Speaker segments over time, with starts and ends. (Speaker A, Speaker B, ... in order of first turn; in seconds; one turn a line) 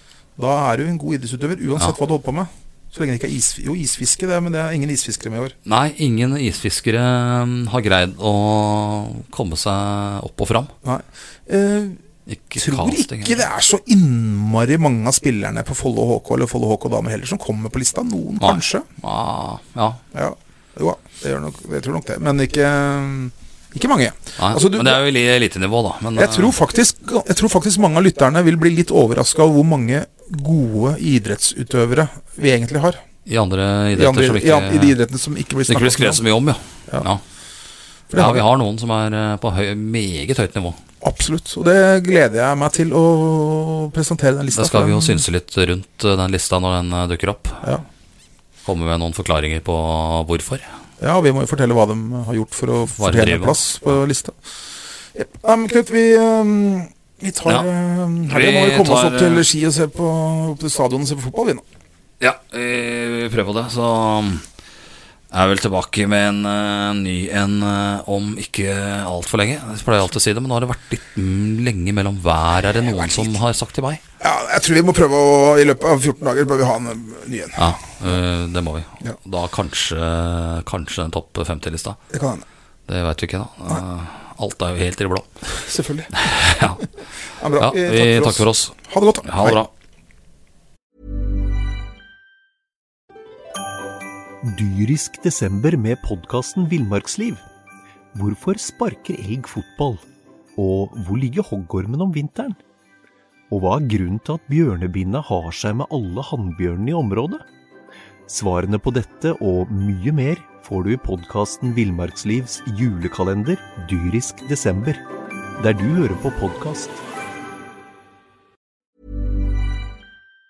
Speaker A: 0.4-5.5
Speaker B: 5.7-10.7
Speaker A: 10.8-12.0
Speaker B: 12.3-13.4
Speaker A: 12.6-18.9
Speaker B: 18.4-20.0
Speaker A: 20.1-25.0
Speaker B: 24.4-26.6
Speaker A: 26.2-33.0
Speaker B: 33.3-35.0
Speaker A: 34.0-36.2
Speaker B: 35.7-37.2
Speaker A: 38.1-38.4
Speaker B: 38.1-40.8
Speaker A: 41.0-45.2
Speaker B: 44.5-47.6
Speaker B: 48.6-50.7
Speaker A: 51.0-54.4
Speaker B: 53.0-53.6
Speaker A: 55.1-61.6
Speaker B: 58.3-59.5
Speaker B: 62.2-64.5
Speaker B: 65.3-74.0
Speaker A: 72.9-73.4
Speaker A: 74.2-77.7
Speaker B: 77.6-82.0
Speaker A: 82.1-82.5
Speaker B: 82.9-85.3
Speaker A: 85.5-86.1
Speaker B: 86.1-86.9
Speaker A: 87.4-89.6
Speaker B: 87.6-89.7
Speaker C: 94.4-97.4
Speaker C: 98.1-100.0
Speaker C: 100.6-102.6
Speaker C: 103.5-107.4
Speaker C: 108.3-115.0
Speaker C: 115.6-117.0